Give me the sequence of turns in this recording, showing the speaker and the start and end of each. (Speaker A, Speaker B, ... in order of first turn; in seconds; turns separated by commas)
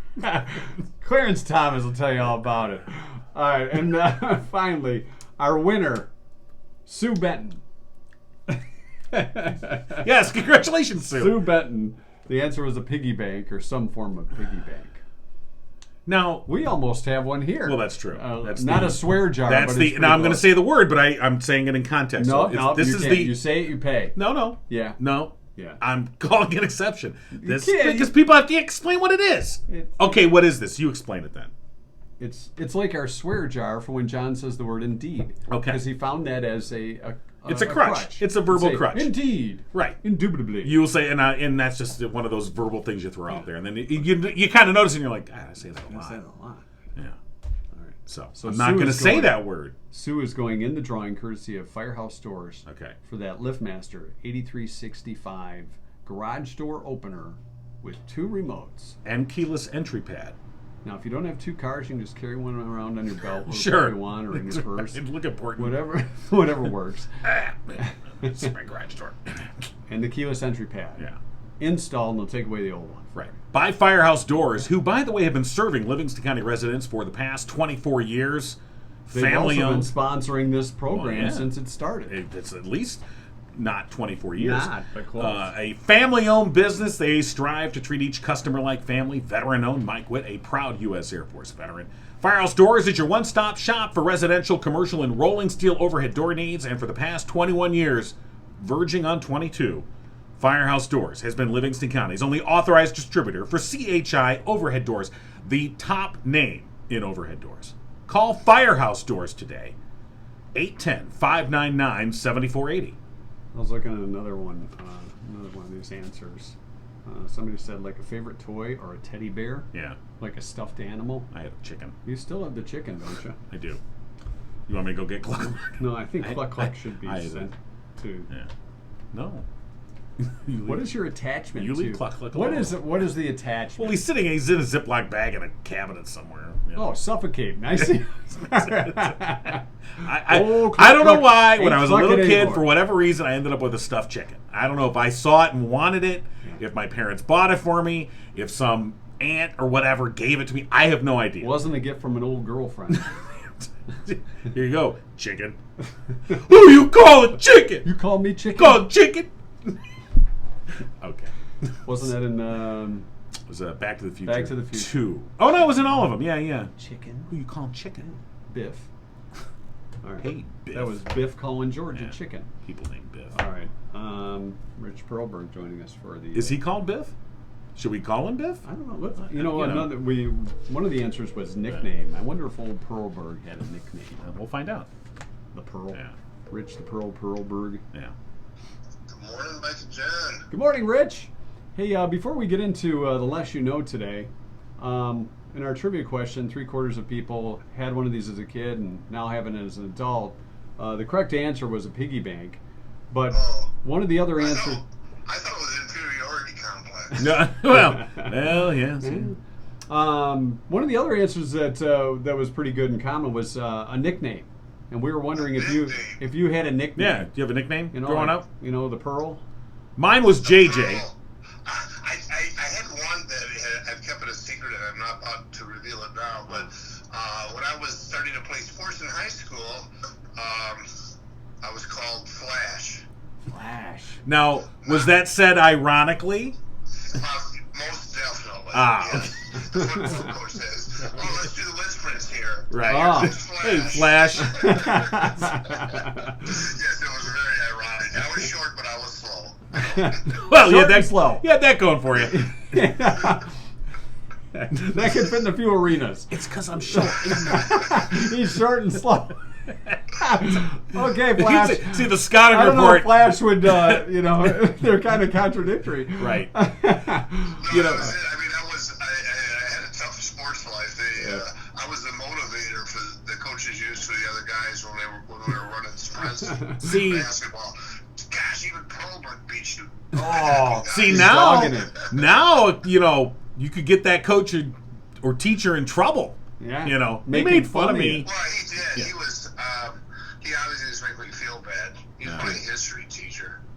Speaker A: 0.2-6.1, Speaker A: 6.8-7.6, Speaker A: 9.1-10.0, Speaker B: 9.9-11.4, Speaker A: 11.1-15.0, Speaker B: 16.1-16.5, Speaker A: 16.4-20.5, Speaker B: 17.6-31.5, Speaker A: 22.1-24.2, Speaker A: 24.7-25.0, Speaker A: 25.5-25.8, Speaker A: 27.4-28.1, Speaker A: 29.7-30.4, Speaker A: 32.2-40.8, Speaker B: 35.5-35.8, Speaker B: 37.4-39.2, Speaker B: 39.7-40.0, Speaker B: 40.6-46.2, Speaker A: 45.9-46.6, Speaker A: 47.9-59.0, Speaker B: 48.1-49.7, Speaker B: 52.6-53.0, Speaker B: 59.0-60.4, Speaker A: 60.8-65.0, Speaker B: 63.4-65.9, Speaker A: 65.6-68.5, Speaker B: 67.2-69.3, Speaker A: 69.9-71.0, Speaker A: 71.6-73.3, Speaker B: 73.2-79.9, Speaker A: 79.1-82.1, Speaker B: 80.9-81.5, Speaker B: 82.1-83.0, Speaker B: 83.5-99.8, Speaker A: 84.4-85.5, Speaker B: 100.4-109.7, Speaker B: 110.5-113.0, Speaker A: 113.5-121.3, Speaker B: 121.3-121.9, Speaker A: 122.0-123.4, Speaker B: 123.5-123.8, Speaker B: 124.7-127.5, Speaker A: 125.7-128.3, Speaker B: 129.1-129.4, Speaker B: 130.2-130.9, Speaker A: 130.6-134.0, Speaker B: 131.6-132.9, Speaker B: 133.8-136.8, Speaker A: 136.7-142.7, Speaker B: 138.5-139.1, Speaker B: 140.0-151.6, Speaker A: 151.4-153.1, Speaker B: 154.1-155.6, Speaker B: 156.3-157.8, Speaker A: 157.8-158.9, Speaker B: 158.5-159.7, Speaker B: 161.0-161.3, Speaker A: 161.8-163.1, Speaker B: 163.5-166.7, Speaker A: 164.2-165.0, Speaker A: 166.8-167.3, Speaker B: 167.3-168.1, Speaker A: 168.5-168.9, Speaker A: 170.0-172.5, Speaker B: 170.2-171.0, Speaker B: 171.9-173.3, Speaker A: 173.3-176.6, Speaker B: 176.3-177.1, Speaker B: 177.8-178.6, Speaker A: 178.6-184.2, Speaker B: 179.2-180.0, Speaker B: 184.2-184.9, Speaker A: 185.5-187.8, Speaker C: 189.1-190.5, Speaker A: 190.5-202.6, Speaker A: 203.1-204.8, Speaker C: 203.3-203.7, Speaker C: 204.4-207.2, Speaker B: 207.2-209.3, Speaker A: 207.7-208.5, Speaker A: 209.0-217.3, Speaker C: 215.4-216.2, Speaker B: 217.0-218.4, Speaker A: 217.9-219.4, Speaker B: 220.0-221.0, Speaker C: 220.4-230.9, Speaker C: 231.6-233.0, Speaker A: 233.5-234.2, Speaker B: 234.2-236.6, Speaker C: 234.8-235.1, Speaker C: 237.1-245.1, Speaker B: 238.7-239.3, Speaker B: 242.7-245.2, Speaker A: 242.8-243.3, Speaker A: 244.5-246.5, Speaker C: 246.3-250.3, Speaker A: 249.8-251.4, Speaker B: 250.3-252.7, Speaker A: 252.2-253.5, Speaker A: 254.5-259.4, Speaker B: 256.3-258.2, Speaker A: 260.1-267.6, Speaker B: 260.9-264.0, Speaker B: 266.2-266.5, Speaker C: 267.6-281.2, Speaker B: 267.7-268.1, Speaker A: 271.2-271.4, Speaker A: 276.4-276.8, Speaker B: 276.8-277.3, Speaker A: 280.1-282.1, Speaker B: 280.8-288.3, Speaker A: 286.6-288.3, Speaker C: 288.2-293.6, Speaker B: 292.2-292.6